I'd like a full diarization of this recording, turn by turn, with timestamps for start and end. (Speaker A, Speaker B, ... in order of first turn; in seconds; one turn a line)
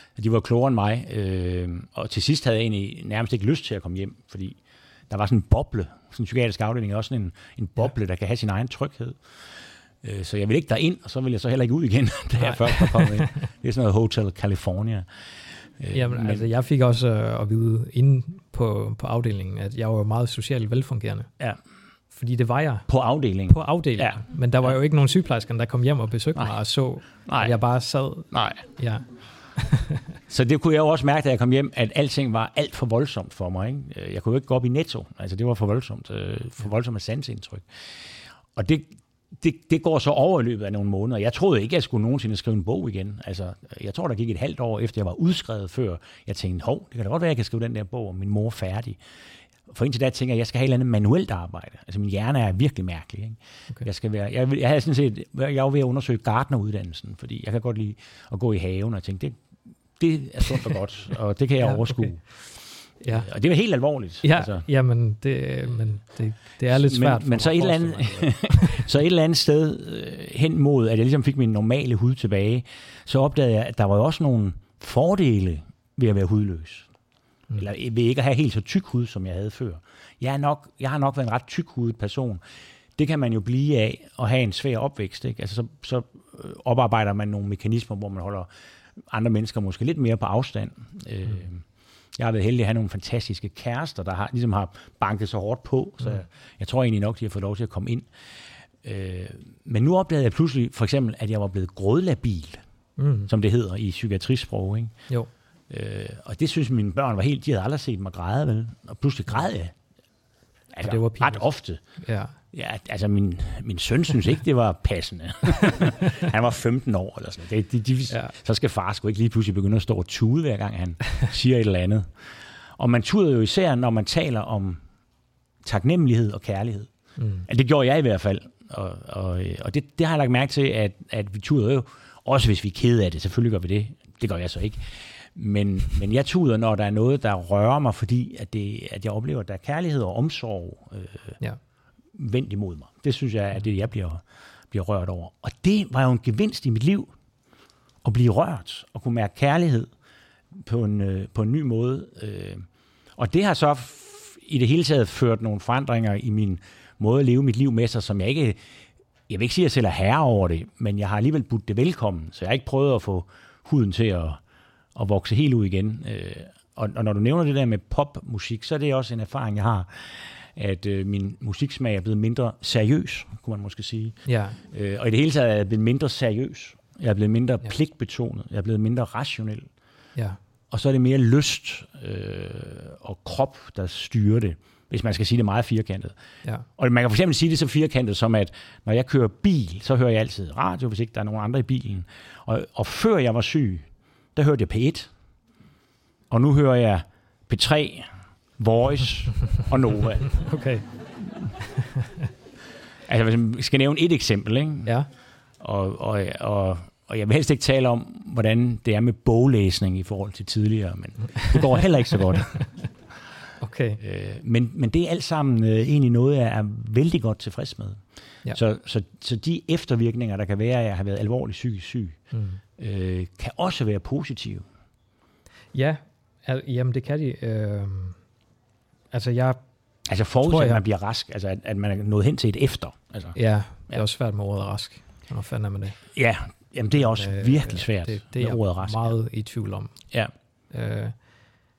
Speaker A: 0.2-4.6
Speaker A: 5.1-9.2
Speaker A: 10.0-15.1
Speaker B: 12.4-13.3
Speaker A: 15.8-16.5
Speaker B: 15.9-21.3
Speaker B: 22.1-22.9
Speaker A: 22.9-24.2
Speaker B: 23.5-30.0
Speaker A: 27.3-27.6
Speaker A: 28.3-28.6
Speaker A: 30.3-37.7
Speaker A: 38.5-49.0
Speaker A: 49.7-59.4
Speaker A: 60.0-62.4
Speaker B: 61.6-62.3
Speaker B: 63.0-63.3
Speaker A: 63.1-64.6
Speaker B: 64.2-68.8
Speaker A: 66.7-76.9
Speaker A: 77.6-82.4
Speaker A: 83.0-88.5
Speaker A: 89.1-91.6
Speaker A: 92.2-98.1
Speaker A: 98.8-102.6
Speaker B: 103.0-103.3
Speaker A: 103.3-104.9
Speaker A: 105.7-109.8
Speaker A: 110.7-111.8
Speaker B: 110.8-111.5
Speaker B: 112.0-112.4
Speaker A: 112.5-122.1
Speaker B: 118.1-118.3
Speaker A: 122.8-124.8
Speaker A: 125.6-126.9
Speaker B: 127.2-127.5
Speaker A: 127.5-141.4
Speaker A: 142.1-147.1
Speaker A: 148.0-149.9
Speaker A: 150.5-152.7
Speaker A: 153.2-158.6
Speaker A: 159.3-164.4
Speaker A: 164.9-179.7
Speaker B: 174.3-174.6
Speaker A: 180.7-186.2
Speaker A: 186.8-195.1
Speaker A: 196.3-200.4
Speaker B: 200.3-200.9
Speaker B: 201.8-202.1
Speaker A: 203.1-204.9
Speaker A: 205.6-212.7
Speaker B: 213.6-214.0
Speaker A: 214.0-218.0
Speaker A: 218.5-222.2
Speaker B: 222.3-222.6
Speaker A: 222.8-224.7
Speaker B: 225.7-228.2
Speaker B: 229.1-229.6
Speaker A: 230.1-233.4
Speaker B: 230.4-230.8
Speaker B: 233.3-236.0
Speaker A: 236.1-239.2
Speaker B: 237.0-240.1
Speaker B: 240.7-241.2